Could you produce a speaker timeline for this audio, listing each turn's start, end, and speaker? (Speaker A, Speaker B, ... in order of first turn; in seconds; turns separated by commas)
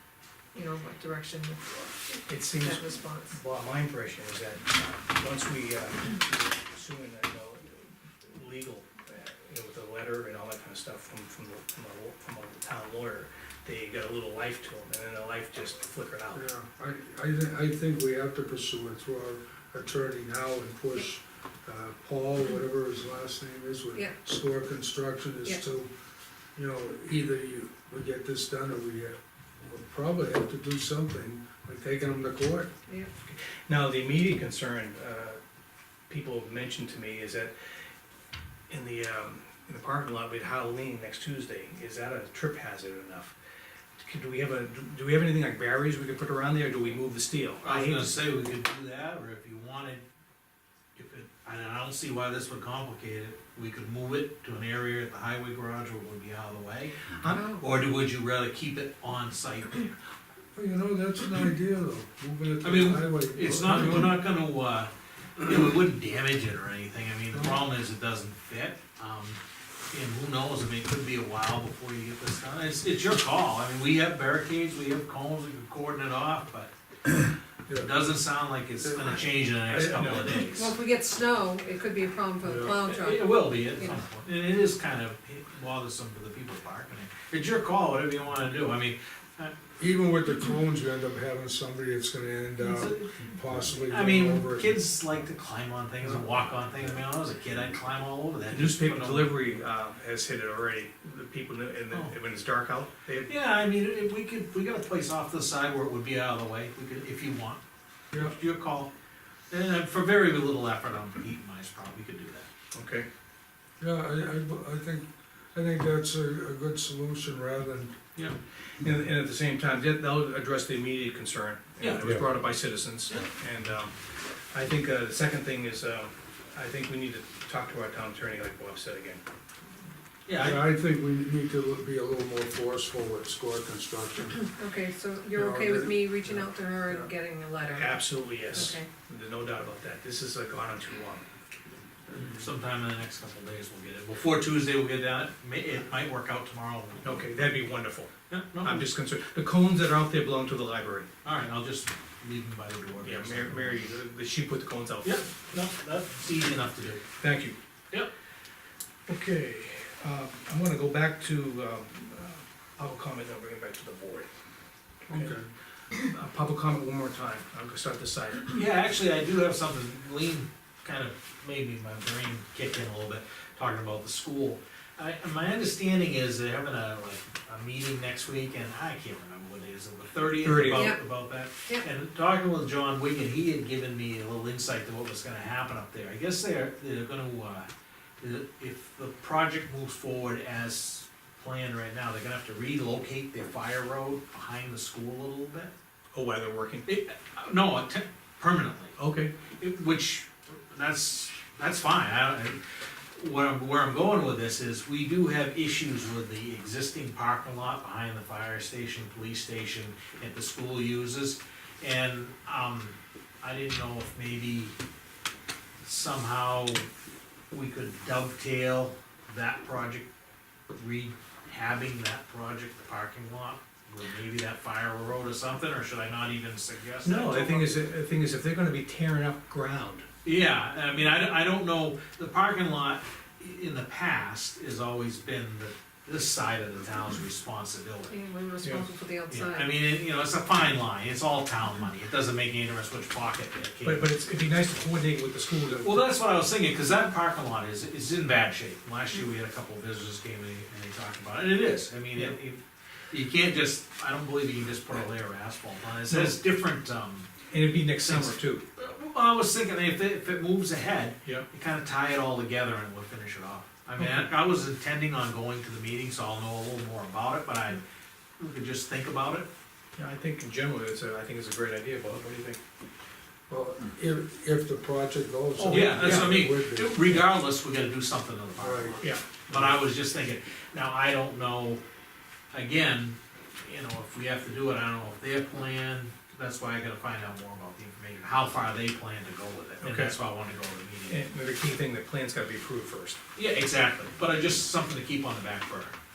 Speaker A: 0.5-3.4, Speaker B: 2.3-16.4, Speaker C: 16.3-25.9, Speaker C: 26.6-32.7, Speaker B: 33.3-35.4, Speaker B: 36.1-37.5, Speaker B: 38.7-43.3, Speaker B: 44.0-48.1, Speaker D: 47.6-50.0, Speaker D: 51.0-60.0, Speaker B: 57.1-57.4, Speaker A: 57.3-57.6, Speaker C: 60.5-64.1, Speaker D: 62.6-69.4, Speaker C: 67.3-67.6, Speaker D: 69.9-76.7, Speaker C: 77.7-77.9, Speaker D: 77.7-80.7, Speaker C: 78.8-80.4, Speaker B: 79.8-80.3, Speaker A: 80.5-84.0, Speaker C: 82.4-82.7, Speaker D: 82.6-89.5, Speaker C: 89.8-94.8, Speaker D: 92.6-99.6, Speaker B: 98.5-103.3, Speaker D: 103.3-107.6, Speaker D: 108.1-108.9, Speaker D: 109.5-112.5, Speaker B: 112.7-113.0, Speaker C: 113.8-118.0, Speaker B: 118.8-123.9, Speaker D: 121.8-122.3, Speaker B: 124.5-129.2, Speaker D: 130.3-130.7, Speaker C: 130.3-134.5, Speaker A: 134.5-138.9, Speaker C: 135.3-137.1, Speaker B: 137.7-141.2, Speaker D: 142.2-147.2, Speaker B: 147.0-151.1, Speaker D: 148.3-148.8, Speaker D: 151.2-153.8, Speaker B: 153.0-155.2, Speaker D: 155.0-157.0, Speaker B: 157.2-157.6, Speaker B: 159.1-164.3, Speaker B: 165.1-165.4, Speaker C: 165.1-165.5, Speaker B: 165.9-168.6, Speaker D: 168.5-187.7, Speaker B: 180.4-180.9, Speaker A: 180.7-181.0, Speaker A: 181.6-181.9, Speaker D: 188.2-195.7, Speaker B: 196.1-196.9, Speaker D: 196.8-198.9, Speaker B: 199.0-199.3, Speaker D: 199.6-202.6, Speaker D: 203.2-214.8, Speaker D: 215.8-216.9, Speaker D: 217.5-220.1, Speaker D: 220.7-227.8, Speaker B: 227.0-230.1, Speaker D: 230.2-238.2, Speaker A: 238.1-239.7, Speaker D: 239.3-244.1, Speaker B: 243.8-246.0, Speaker D: 245.8-257.3, Speaker B: 256.1-256.4, Speaker B: 257.5-258.6, Speaker D: 257.9-267.8, Speaker B: 264.0-264.3, Speaker D: 268.4-269.5, Speaker B: 269.9-272.6, Speaker C: 273.5-277.3, Speaker D: 275.6-281.8, Speaker B: 275.7-276.4, Speaker C: 278.6-279.0, Speaker B: 279.0-279.3, Speaker D: 282.5-291.2, Speaker B: 289.8-290.1, Speaker B: 291.1-293.2, Speaker D: 293.4-295.9